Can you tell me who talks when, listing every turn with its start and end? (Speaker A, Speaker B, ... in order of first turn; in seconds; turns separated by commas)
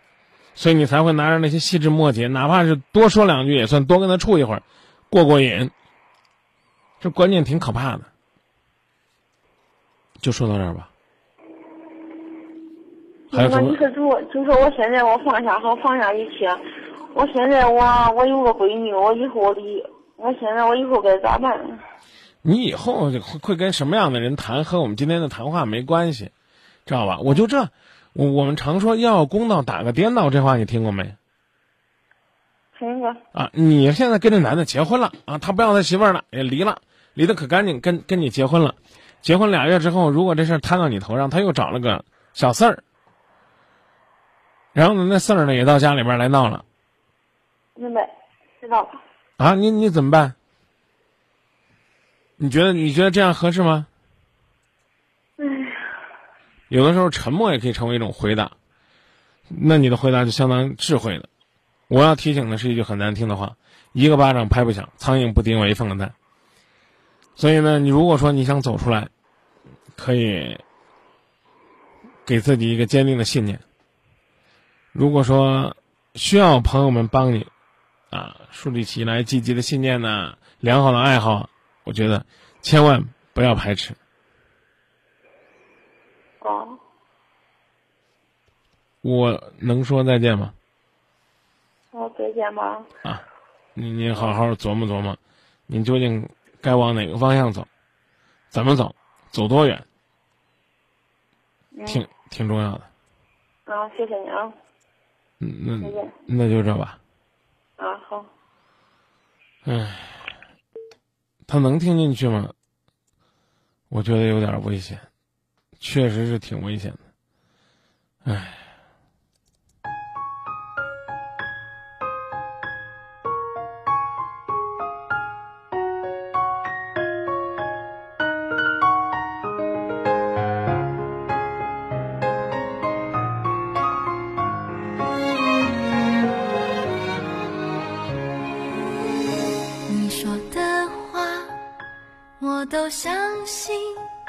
Speaker A: 0.6-5.7, Speaker A: 7.0-8.1, Speaker A: 10.2-10.9, Speaker B: 13.3-16.6, Speaker A: 13.3-13.8, Speaker B: 17.1-21.8, Speaker A: 22.4-26.3, Speaker A: 26.9-31.2, Speaker B: 32.8-33.2, Speaker A: 33.3-42.8, Speaker A: 44.8-46.6, Speaker B: 47.8-48.1, Speaker B: 48.6-49.0, Speaker A: 49.4-50.4, Speaker A: 52.4-53.9, Speaker B: 55.4-55.9, Speaker A: 56.7-58.5, Speaker A: 59.5-61.3, Speaker A: 61.9-66.1, Speaker A: 67.4-69.1, Speaker A: 70.0-70.6, Speaker A: 72.3-73.6, Speaker A: 74.9-77.5, Speaker A: 78.1-84.0, Speaker B: 86.4-86.8, Speaker A: 89.0-90.5, Speaker B: 91.9-92.9, Speaker A: 93.8-97.7, Speaker A: 98.5-99.8, Speaker B: 101.7-102.0, Speaker A: 101.9-102.9, Speaker B: 103.7-104.5, Speaker A: 105.4-107.0, Speaker B: 105.8-106.1, Speaker B: 107.8-108.3, Speaker A: 109.7-110.2, Speaker A: 111.5-112.5, Speaker A: 113.9-115.0, Speaker A: 115.8-117.0, Speaker A: 118.2-118.6, Speaker C: 139.9-141.6, Speaker C: 142.4-144.1